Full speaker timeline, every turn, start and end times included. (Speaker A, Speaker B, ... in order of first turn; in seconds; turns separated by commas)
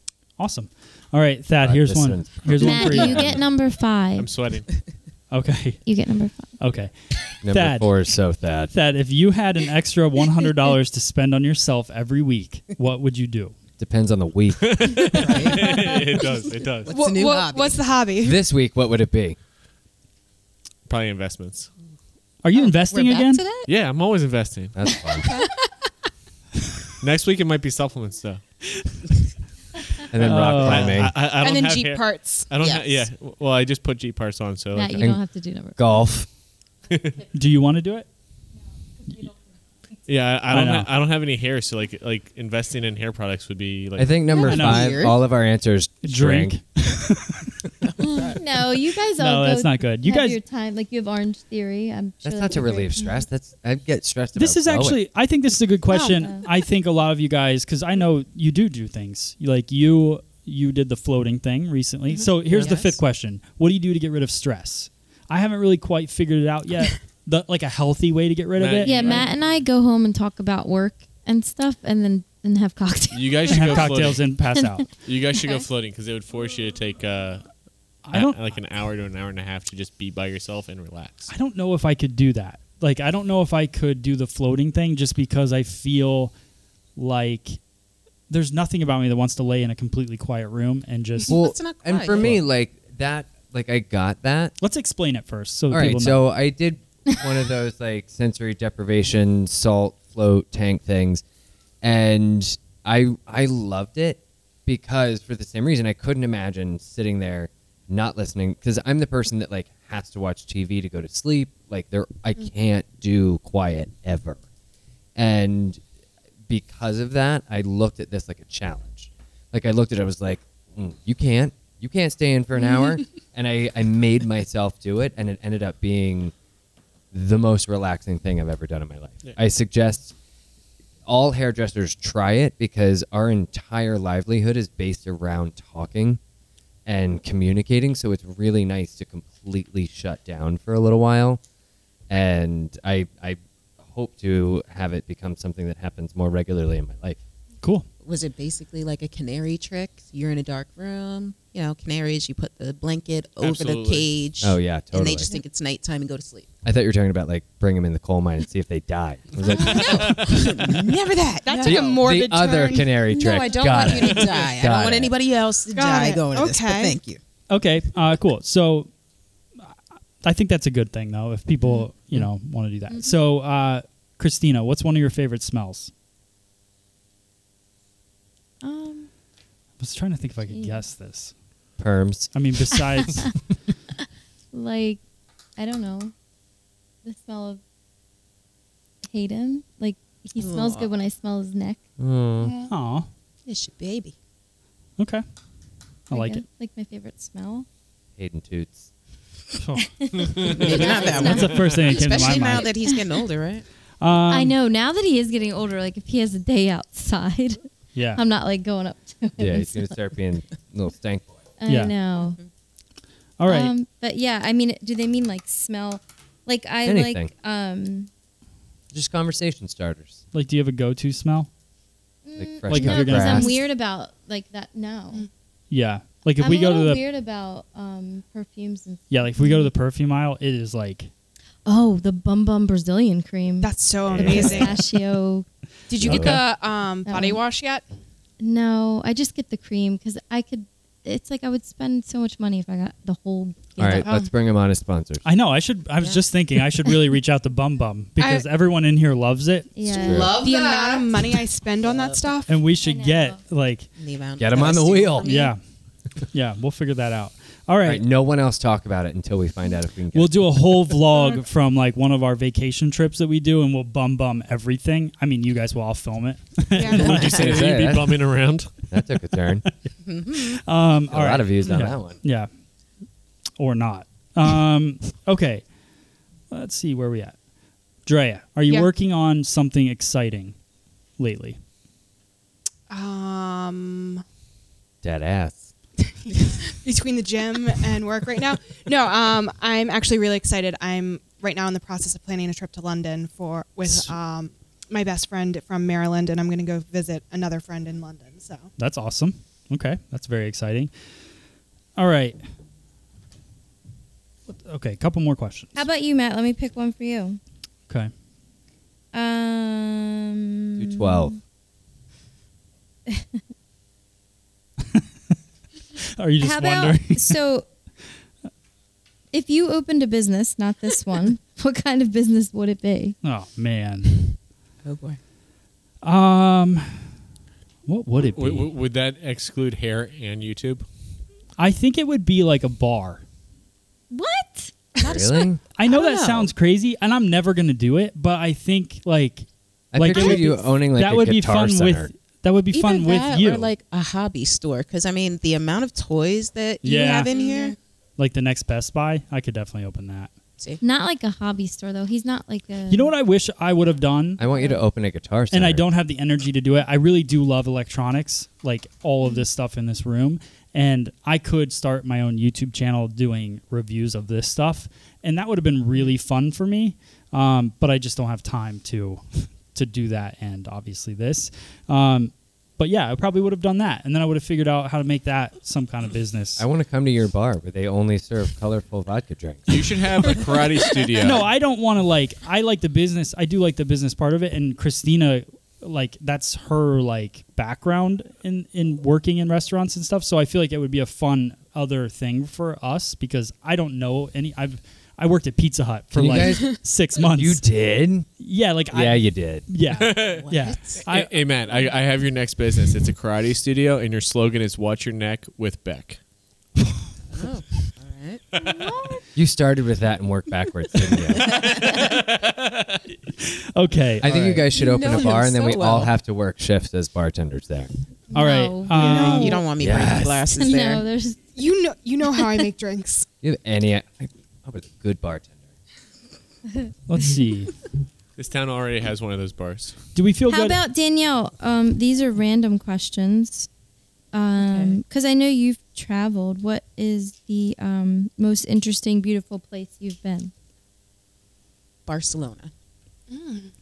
Speaker A: 0.4-3.3, Speaker B: 1.6-3.4, Speaker C: 2.5-4.3, Speaker D: 4.2-4.7, Speaker A: 5.3-5.8, Speaker C: 5.8-6.5, Speaker A: 6.6-6.9, Speaker B: 7.4-8.7, Speaker A: 7.5-7.9, Speaker A: 8.7-13.6, Speaker B: 13.8-15.1, Speaker D: 14.6-16.9, Speaker E: 15.2-16.0, Speaker E: 16.9-17.9, Speaker F: 16.9-18.4, Speaker B: 18.2-19.4, Speaker D: 20.9-21.7, Speaker A: 22.4-23.4, Speaker E: 22.6-23.7, Speaker D: 23.7-25.0, Speaker B: 24.8-25.3, Speaker E: 25.2-25.5, Speaker D: 27.0-28.4, Speaker B: 30.1-31.1, Speaker A: 30.2-31.0, Speaker D: 30.2-35.1, Speaker F: 31.2-32.5, Speaker E: 32.6-33.1, Speaker C: 34.7-36.0, Speaker B: 35.8-36.3, Speaker D: 36.9-37.2, Speaker A: 37.3-38.1, Speaker D: 40.1-44.1, Speaker A: 40.5-40.9, Speaker B: 44.0-46.6, Speaker E: 44.3-45.2, Speaker A: 44.4-45.0, Speaker A: 46.0-47.6, Speaker E: 48.0-48.4, Speaker C: 48.3-52.9, Speaker A: 49.2-50.4, Speaker B: 52.2-55.0, Speaker F: 53.0-53.2, Speaker A: 54.4-69.3, Speaker E: 62.5-62.9, Speaker D: 68.6-69.4, Speaker C: 68.8-74.8, Speaker D: 73.1-74.3, Speaker A: 73.5-74.9, Speaker D: 75.0-77.5, Speaker A: 78.0-78.4, Speaker D: 78.1-81.3, Speaker A: 81.3-86.3, Speaker A: 87.0-87.6, Speaker A: 88.3-91.3, Speaker E: 91.3-92.3, Speaker B: 91.3-94.5, Speaker A: 94.6-96.2, Speaker B: 95.7-101.2, Speaker B: 101.8-114.4, Speaker B: 115.2-115.8, Speaker B: 116.5-126.3, Speaker B: 127.1-130.1, Speaker B: 131.1-136.2, Speaker B: 136.9-141.4, Speaker B: 142.1-147.2, Speaker A: 147.6-147.9, Speaker E: 148.0-156.5, Speaker D: 153.4-154.1, Speaker B: 154.4-155.3, Speaker B: 156.6-160.6, Speaker E: 159.5-162.0, Speaker F: 161.4-163.0, Speaker B: 161.6-165.1, Speaker E: 163.1-167.2, Speaker F: 165.7-167.0, Speaker A: 167.5-168.9, Speaker A: 169.6-175.9, Speaker C: 172.9-173.2, Speaker C: 178.6-179.1, Speaker A: 179.8-181.3, Speaker C: 180.5-180.8, Speaker B: 181.8-182.3, Speaker A: 182.3-183.3, Speaker C: 184.5-185.0, Speaker C: 185.6-186.1, Speaker C: 187.0-187.6, Speaker C: 189.1-191.8, Speaker E: 190.4-190.9, Speaker B: 192.0-192.5, Speaker F: 192.4-192.7, Speaker A: 192.7-193.1, Speaker E: 193.5-194.2, Speaker A: 196.1-196.4, Speaker C: 196.1-197.7, Speaker B: 198.2-198.9, Speaker A: 199.6-199.9, Speaker C: 199.8-203.0, Speaker E: 200.5-203.7, Speaker A: 201.0-202.7, Speaker A: 204.0-204.6, Speaker C: 204.3-207.6, Speaker A: 207.9-208.2, Speaker C: 208.1-210.0, Speaker B: 209.4-211.4, Speaker C: 211.6-212.4, Speaker A: 211.7-211.9, Speaker A: 213.4-213.7, Speaker C: 213.5-218.1, Speaker B: 216.8-217.3, Speaker B: 218.9-220.2, Speaker A: 220.3-221.5, Speaker C: 222.2-225.3, Speaker B: 222.4-223.6, Speaker A: 222.7-223.6, Speaker A: 225.7-227.0, Speaker C: 226.4-229.7, Speaker A: 229.1-231.1, Speaker C: 231.7-235.5, Speaker F: 233.6-234.9, Speaker B: 234.1-234.7, Speaker F: 235.9-237.8, Speaker B: 236.0-236.4, Speaker A: 236.1-236.4, Speaker C: 237.1-237.4, Speaker C: 238.4-244.1, Speaker B: 243.8-245.2, Speaker F: 244.0-244.3, Speaker A: 245.2-249.7, Speaker F: 248.2-248.5, Speaker C: 249.8-250.5, Speaker E: 249.9-251.2, Speaker F: 249.9-252.5, Speaker B: 249.9-250.3, Speaker E: 251.8-252.2, Speaker A: 252.5-253.9, Speaker C: 252.7-253.4, Speaker E: 254.0-255.5, Speaker B: 254.4-255.3, Speaker A: 255.3-255.6, Speaker A: 256.3-258.0, Speaker B: 257.8-260.6, Speaker A: 260.1-267.4, Speaker F: 266.7-267.2, Speaker D: 267.0-268.7, Speaker B: 267.1-268.3, Speaker B: 268.9-269.7, Speaker A: 269.7-272.5, Speaker E: 270.0-270.6, Speaker B: 271.1-272.2, Speaker A: 273.6-275.6, Speaker A: 276.5-277.4, Speaker A: 278.1-280.6, Speaker A: 281.2-281.6, Speaker F: 282.9-284.2, Speaker B: 285.0-285.7, Speaker F: 286.2-298.7, Speaker A: 298.8-300.9, Speaker A: 302.0-302.4, Speaker A: 304.5-305.9, Speaker C: 305.8-307.4, Speaker C: 309.1-311.4, Speaker B: 310.8-311.4, Speaker C: 313.1-313.4, Speaker A: 316.2-317.4, Speaker C: 316.4-317.7, Speaker C: 319.3-323.2, Speaker A: 323.2-324.2, Speaker E: 324.8-325.2, Speaker A: 326.0-327.1, Speaker A: 327.9-328.7, Speaker D: 328.2-330.9, Speaker A: 331.6-333.2, Speaker C: 334.1-334.7, Speaker E: 335.0-336.5, Speaker B: 335.0-335.6, Speaker A: 335.8-343.7, Speaker B: 339.9-342.1, Speaker E: 340.1-340.6, Speaker E: 342.7-347.8, Speaker A: 346.8-347.3, Speaker F: 347.3-347.8, Speaker A: 348.2-350.3, Speaker C: 350.8-353.1, Speaker A: 352.9-354.4, Speaker B: 354.4-355.8, Speaker A: 355.5-376.6, Speaker B: 376.6-380.4, Speaker D: 379.7-381.4, Speaker A: 381.2-397.6, Speaker B: 396.1-398.3, Speaker A: 398.4-401.4, Speaker B: 398.9-399.7, Speaker D: 399.9-400.4, Speaker E: 400.3-401.0, Speaker D: 401.0-406.2, Speaker E: 407.3-408.4, Speaker C: 408.6-409.2, Speaker B: 409.4-411.8, Speaker D: 411.8-412.9, Speaker A: 413.4-414.6, Speaker B: 414.2-417.9, Speaker E: 414.7-416.1, Speaker C: 418.3-419.6, Speaker A: 418.3-419.6, Speaker E: 418.9-421.1, Speaker B: 419.8-420.5, Speaker C: 420.5-421.5, Speaker F: 421.6-423.3, Speaker B: 423.4-425.6, Speaker A: 427.1-427.7, Speaker D: 428.4-430.0, Speaker A: 430.1-430.8, Speaker C: 430.5-433.7, Speaker C: 434.3-440.5, Speaker E: 434.6-435.0, Speaker E: 442.1-442.7, Speaker F: 443.3-443.7